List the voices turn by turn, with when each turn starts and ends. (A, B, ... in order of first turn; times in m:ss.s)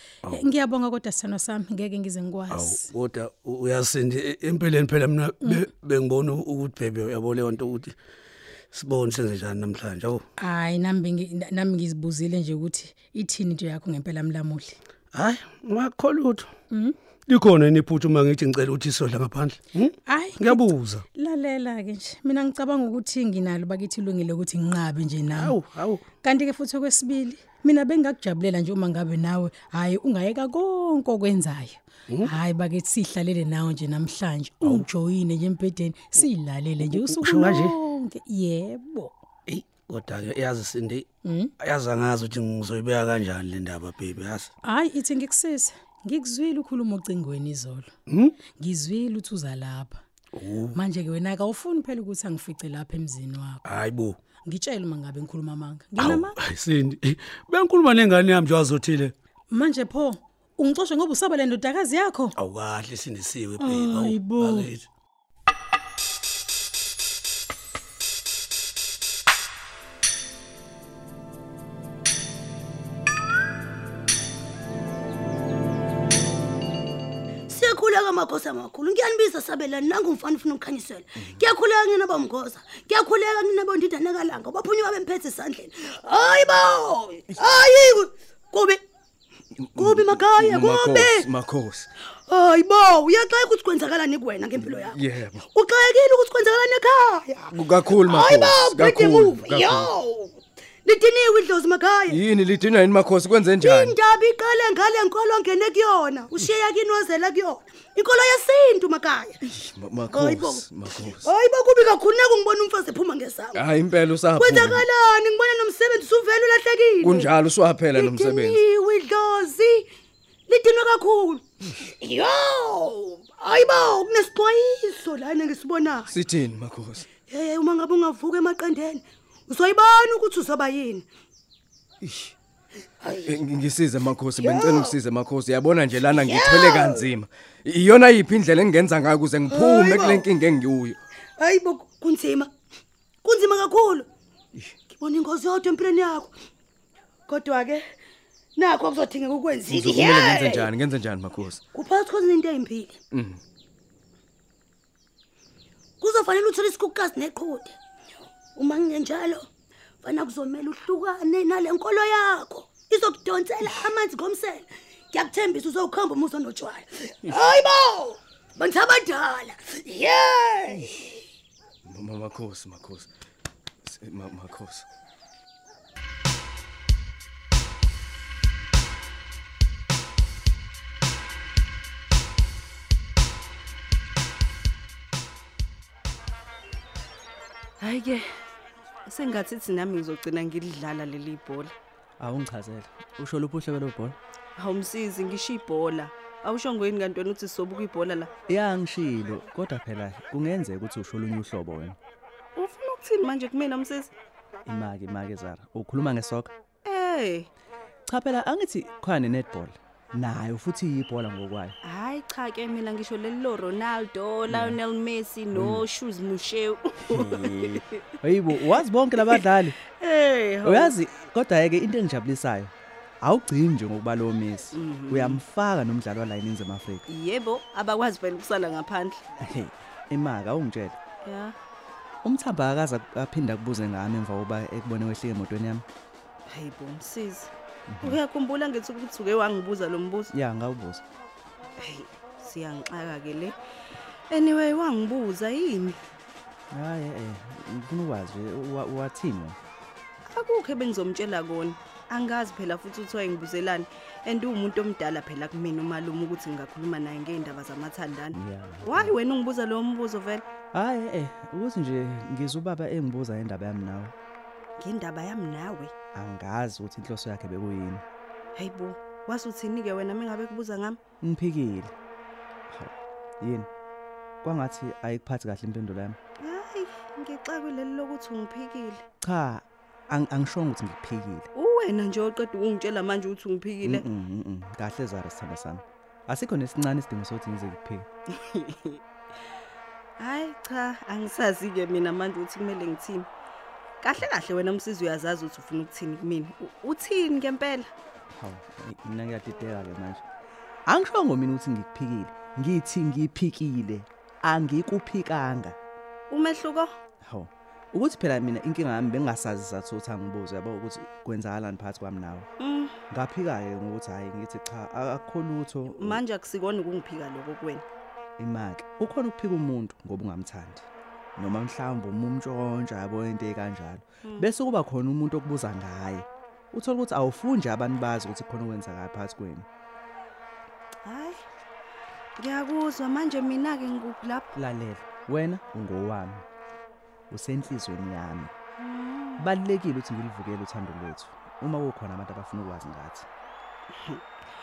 0:00.3-0:02.9 A
0:02.5-0:08.0 B
0:08.7-0:10.2 B
0:10.4-0:14.8 A
0:15.1-0:16.5 B
0:16.7-0:17.0 A
0:17.3-0:21.0 B
0:20.0-0:25.6 A
0:25.3-0:26.0 B
0:26.2-0:39.2 A
0:36.8-0:37.7 B
0:39.5-0:41.1 B
0:41.2-0:41.5 A
0:41.6-0:44.5 B
0:44.6-0:47.9 A
0:48.1-0:48.3 B
0:48.6-0:50.0 A
0:50.3-0:50.7 B
0:50.7-0:53.6 A
0:53.6-0:54.2 B
0:54.4-0:56.4 A
0:56.0-0:59.1 B
0:59.5-1:02.4 A
1:02.4-1:04.8 B
1:03.6-1:04.7 A
1:17.5-1:28.8 C
1:29.6-1:31.9 D
1:29.8-1:31.3 C
1:32.3-1:35.0 C
1:34.6-1:35.4 D
1:35.5-1:42.2 C
1:37.5-1:39.9 D
1:42.1-1:44.0 D
1:43.6-1:49.4 C
1:49.5-1:51.3 D
1:50.1-1:53.6 C
1:53.5-1:54.9 D
1:54.3-1:57.3 C
1:57.0-1:58.6 D
1:57.9-1:59.9 C
2:00.5-2:06.1 C
2:06.1-2:07.1 D
2:07.3-2:11.1 C
2:12.0-2:12.3 D
2:13.0-2:13.3 C
2:13.2-2:21.0 D
2:14.4-2:15.0 C
2:16.1-2:17.1 C
2:19.5-2:20.3 C
2:21.4-2:22.5 C
2:23.2-2:24.1 C
2:24.9-2:26.3 C
2:27.3-2:27.9 C
2:28.6-2:30.7 C
2:29.7-2:31.6 D
2:31.7-2:33.0 C
2:33.1-2:33.4 D
2:36.0-2:37.8 C
2:38.6-2:39.5 C
2:40.0-2:51.0 C
2:51.8-2:53.1 D
2:53.8-2:54.8 D
3:07.8-3:08.2 E
3:09.0-3:11.7 E
3:12.2-3:14.2 F
3:14.6-3:18.3 E
3:18.5-3:22.0 F
3:22.6-3:24.1 E
3:24.7-3:26.5 F
3:26.8-3:27.5 E
3:28.1-3:31.8 F
3:31.8-3:38.0 E
3:34.5-3:34.8 F
3:35.5-3:35.8 F
3:37.3-3:37.7 B
3:38.2-3:39.8 F
3:40.0-3:41.0 E
3:40.6-3:42.7 F
3:43.2-3:47.0 F
3:44.7-3:45.4 E
3:47.1-3:49.2 E
3:49.4-3:51.0 F
3:51.2-3:51.5 E
3:52.2-3:55.8 F
3:56.5-3:57.5 E
3:57.9-3:58.2 F
3:58.0-4:00.3 E
4:00.3-4:01.0 F
4:01.8-4:03.6 E
4:04.3-4:06.0 E
4:06.7-4:09.6 F
4:10.3-4:20.4 E
4:18.3-4:19.2 F
4:20.7-4:24.1 F
4:24.8-4:25.9 E
4:26.1-4:28.0 F
4:28.5-4:31.0 E
4:31.2-4:31.9 F
4:32.7-4:33.7 F
4:34.4-4:36.2 F
4:36.4-4:39.0 E
4:39.2-4:41.5 F
4:41.6-4:44.0 E
4:43.8-4:48.1 F
4:48.5-4:49.0 E
4:50.2-4:53.3 E
4:54.0-4:57.9 E
4:58.3-5:00.2 F
5:00.9-5:05.8 F
5:06.3-5:06.9 E
5:07.2-5:12.5 F
5:12.6-5:12.9 E
5:13.1-5:16.2 F
5:15.9-5:17.8 E
5:18.4-5:20.8 F
5:21.4-5:29.7 F
5:31.0-5:31.4 E
5:32.4-5:34.5 E
5:34.6-5:36.4 F
5:37.3-5:38.5 F
5:38.8-5:39.4 E
5:39.4-5:43.2 F